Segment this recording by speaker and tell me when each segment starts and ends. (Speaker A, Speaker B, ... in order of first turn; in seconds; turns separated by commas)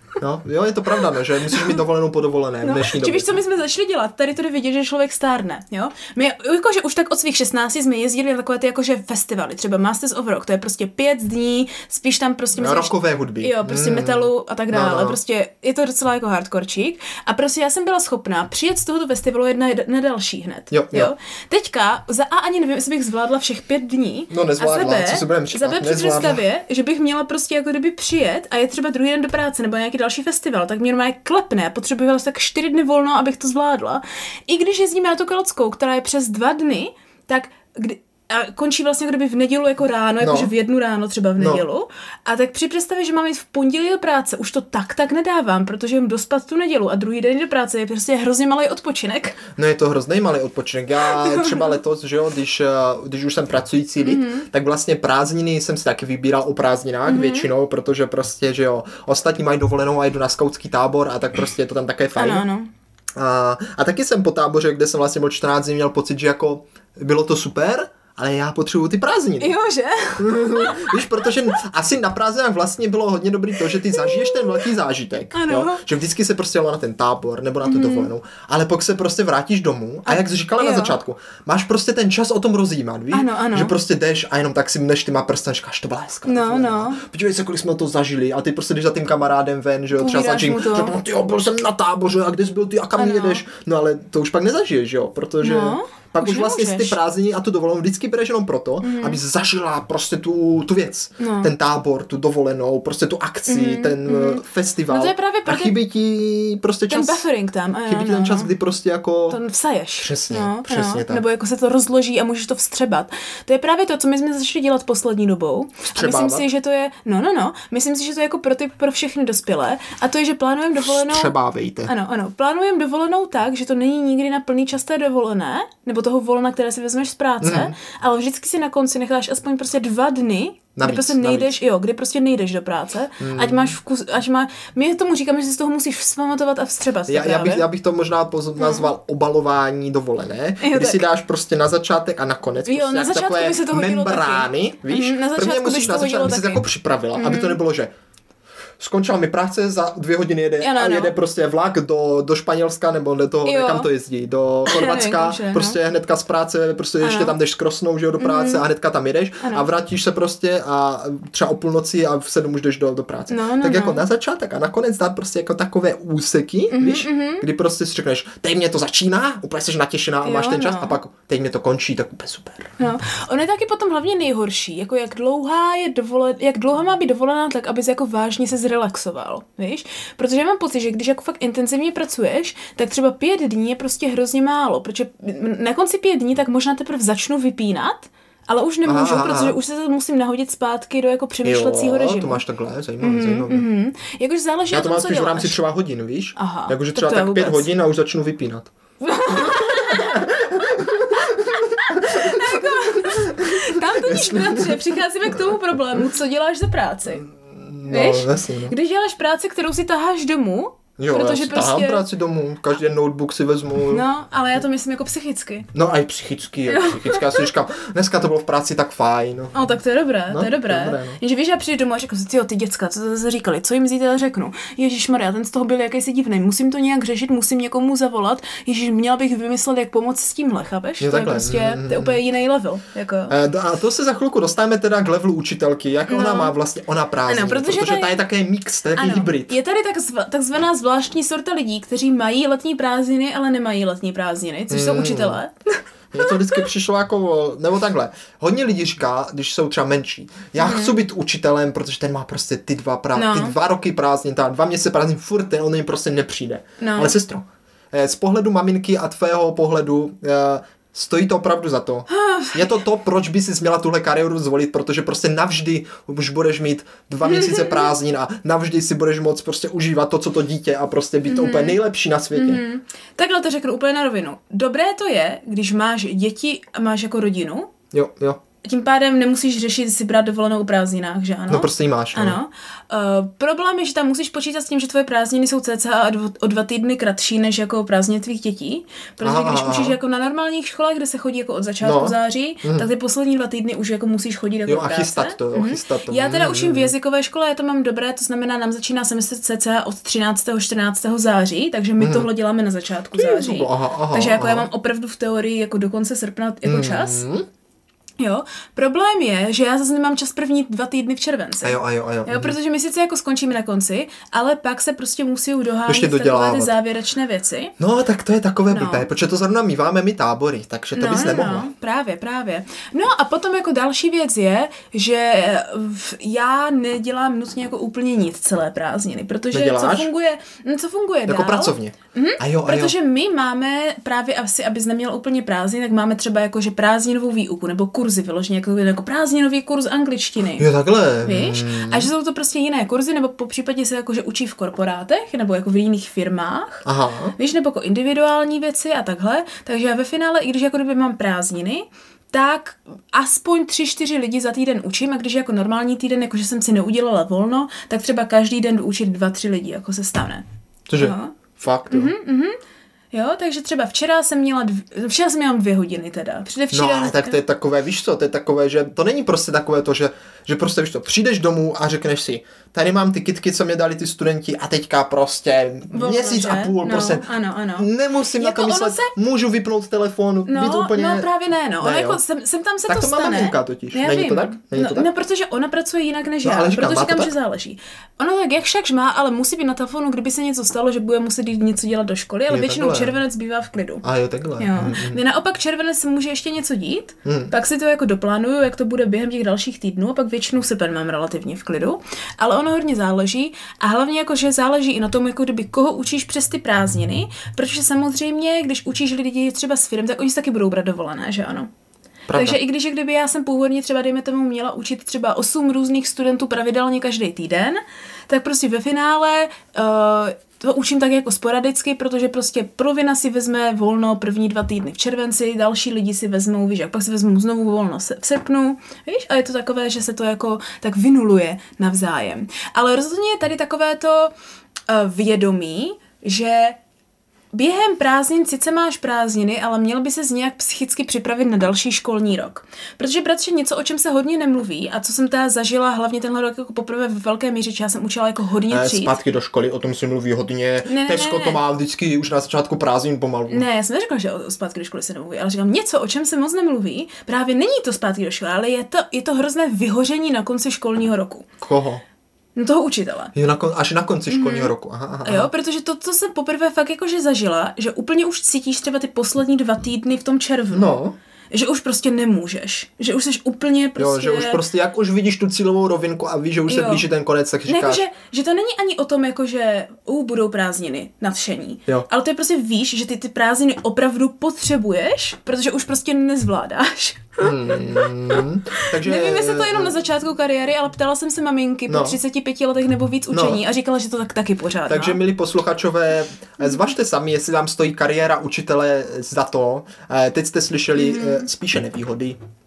Speaker A: 0.2-3.4, Speaker B: 1.5-1.8, Speaker B: 2.6-49.4, Speaker A: 12.6-15.2, Speaker A: 20.7-21.1, Speaker A: 24.3-26.4, Speaker A: 40.2-40.5, Speaker A: 41.4-41.6, Speaker A: 49.6-62.5, Speaker B: 51.0-51.7, Speaker B: 54.0-54.5, Speaker B: 57.1-57.5, Speaker B: 62.2-62.7, Speaker A: 63.2-69.5, Speaker B: 69.4-71.3, Speaker A: 70.2-107.2, Speaker B: 73.7-74.7, Speaker B: 75.3-75.8, Speaker B: 77.6-78.1, Speaker B: 80.1-81.0, Speaker B: 83.1-83.7, Speaker B: 86.3-87.0, Speaker B: 89.9-91.0, Speaker B: 93.0-93.4, Speaker B: 95.4-97.0, Speaker B: 98.8-99.2, Speaker B: 101.2-101.5, Speaker B: 103.5-105.8, Speaker B: 106.9-108.5, Speaker A: 107.9-109.4, Speaker B: 109.3-121.3, Speaker A: 110.0-111.2, Speaker A: 115.9-116.5, Speaker A: 120.8-121.9, Speaker B: 121.9-137.7, Speaker A: 127.4-127.8, Speaker A: 130.8-131.5, Speaker A: 133.2-133.8, Speaker A: 137.1-147.9, Speaker B: 138.6-138.9, Speaker B: 140.6-141.1, Speaker B: 142.6-147.6, Speaker A: 148.8-172.8, Speaker B: 150.6-151.1, Speaker B: 153.4-153.9, Speaker B: 154.7-155.8, Speaker B: 157.0-157.3, Speaker B: 158.2-158.6, Speaker B: 159.4-159.7, Speaker B: 163.3-164.0, Speaker B: 166.7-167.5, Speaker B: 170.2-171.0, Speaker B: 172.8-192.4, Speaker A: 188.8-189.6, Speaker A: 191.4-193.7, Speaker B: 193.0-195.6, Speaker A: 194.7-198.7, Speaker B: 196.4-197.7, Speaker B: 199.0-200.5, Speaker A: 199.3-204.8, Speaker B: 201.2-207.3, Speaker A: 207.3-208.7, Speaker B: 207.9-212.1, Speaker A: 211.0-214.1, Speaker B: 213.9-215.7, Speaker A: 215.7-219.8, Speaker B: 216.7-217.5, Speaker B: 219.5-233.3, Speaker A: 220.3-221.2, Speaker A: 231.0-232.2, Speaker A: 233.3-239.6, Speaker B: 236.1-236.5, Speaker B: 237.3-238.2, Speaker B: 239.0-246.6, Speaker A: 244.7-245.4, Speaker A: 246.1-272.6, Speaker B: 250.6-251.0, Speaker B: 253.1-253.6, Speaker B: 256.8-257.1, Speaker B: 262.1-262.8, Speaker B: 267.2-267.9, Speaker B: 271.3-271.8, Speaker B: 272.3-277.7, Speaker A: 277.9-278.4, Speaker B: 278.6-307.2, Speaker A: 281.5-282.4, Speaker A: 289.2-290.0, Speaker A: 291.8-292.9, Speaker A: 294.7-296.9, Speaker A: 302.0-302.3, Speaker A: 303.1-304.7, Speaker A: 306.6-307.5, Speaker B: 308.2-317.7, Speaker A: 311.6-312.6, Speaker A: 315.9-316.8, Speaker A: 317.8-321.7, Speaker B: 318.7-319.1, Speaker B: 320.9-340.7, Speaker A: 329.5-330.1, Speaker A: 331.3-332.9, Speaker A: 340.6-342.1, Speaker B: 341.2-346.9, Speaker A: 346.9-347.4, Speaker B: 347.4-360.4, Speaker A: 360.9-362.1, Speaker B: 361.0-361.4, Speaker B: 361.9-362.6, Speaker B: 363.1-367.4, Speaker A: 366.7-381.3, Speaker B: 375.9-379.1, Speaker B: 380.5-394.0, Speaker A: 381.8-382.2, Speaker A: 382.9-385.1, Speaker A: 386.4-387.3, Speaker A: 392.5-393.2, Speaker A: 394.0-395.2, Speaker B: 394.6-411.7, Speaker A: 397.2-397.5, Speaker A: 412.3-412.6, Speaker B: 412.3-434.3, Speaker B: 434.9-436.8, Speaker B: 437.5-449.1, Speaker A: 448.7-453.7, Speaker B: 450.9-451.6, Speaker B: 453.5-461.5, Speaker A: 461.6-462.0, Speaker B: 462.6-463.3, Speaker A: 463.4-465.5, Speaker B: 464.3-464.7, Speaker B: 465.2-471.0, Speaker A: 470.7-471.1, Speaker B: 471.5-474.6, Speaker A: 474.0-478.0, Speaker B: 476.7-477.1, Speaker B: 477.7-495.2, Speaker A: 487.4-490.0, Speaker A: 491.9-492.2, Speaker A: 493.3-493.6, Speaker A: 494.9-502.4, Speaker B: 500.9-501.5